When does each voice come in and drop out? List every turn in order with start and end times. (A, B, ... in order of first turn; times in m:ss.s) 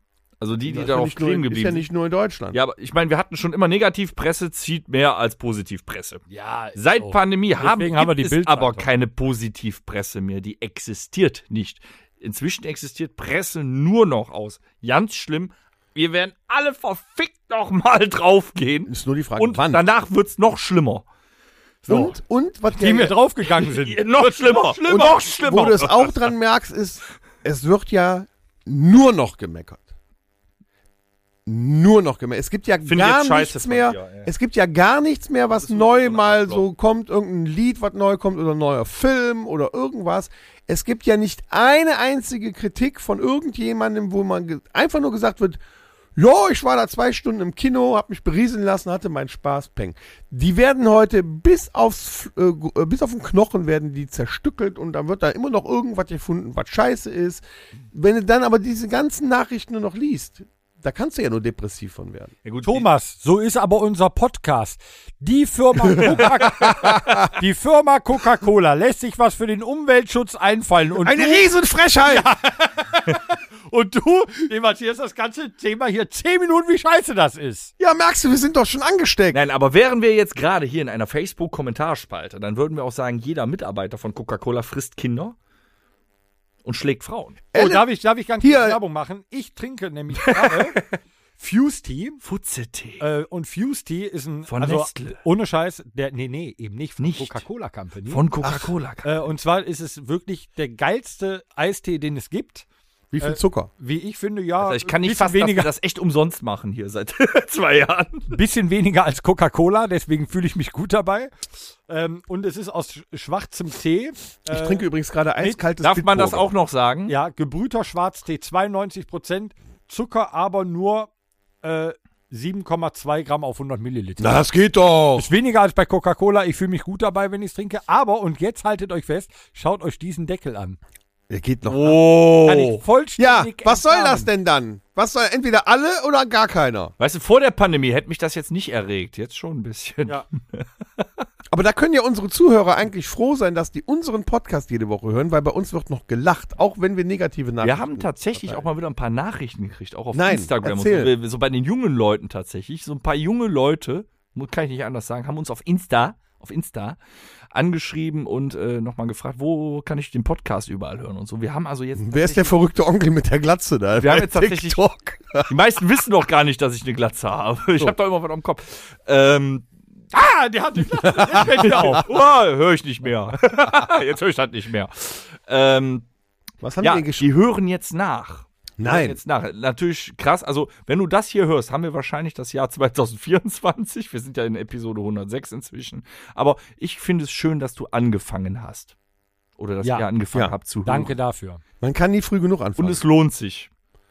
0:00.4-0:01.9 A
0:00.6-0:02.6 B
0:02.5-0:21.0 A
0:06.3-0:08.9 C
0:18.9-0:19.8 B
0:21.9-0:22.2 C
0:21.9-0:23.1 B
0:22.7-0:25.0 C
0:23.6-0:26.3 A
0:24.8-0:29.9 B
0:31.4-0:45.6 B
0:32.8-0:34.3 A
0:35.5-0:36.7 A
0:46.2-1:02.3 B
1:02.4-1:02.9 A
1:02.6-1:11.5 C
1:06.0-1:07.1 B
1:11.0-1:12.3 B
1:12.0-1:17.7 C
1:17.8-1:19.4 B
1:19.3-1:25.3 A
1:26.6-1:27.4 A
1:27.5-1:27.9 B
1:27.5-1:30.8 C
1:28.4-1:28.8 B
1:30.1-1:30.9 A
1:31.4-1:32.2 C
1:32.2-1:33.0 A
1:33.0-1:38.2 C
1:34.5-1:35.2 A
1:37.0-1:37.4 A
1:38.1-1:39.1 A
1:38.4-1:38.7 B
1:39.0-1:42.6 C
1:43.1-1:43.7 B
1:43.2-1:45.7 C
1:44.6-1:48.3 A
1:48.3-1:51.3 C
1:51.9-1:54.8 C
1:54.5-1:56.5 B
1:55.8-1:57.1 A
1:57.1-2:01.1 C
2:01.6-2:04.4 C
2:04.2-2:05.3 B
2:05.2-2:10.8 C
2:11.3-2:12.0 B
2:11.7-2:12.8 A
2:12.4-2:14.3 C
2:13.2-2:16.9 B
2:17.0-2:21.0 A
2:21.5-2:28.6 B
2:27.6-2:37.0 A
2:30.1-2:31.1 B
2:37.5-2:42.6 A
2:42.0-2:45.5 B
2:43.9-2:44.8 A
2:45.4-2:49.7 A
2:50.1-2:52.1 C
2:51.0-2:52.1 B
2:51.3-2:56.1 A
2:56.6-2:57.3 B
2:56.8-3:08.9 A
2:58.8-2:59.2 B
3:09.6-3:11.1 A
3:10.8-3:11.6 C
3:11.8-3:13.0 B
3:12.8-3:13.7 A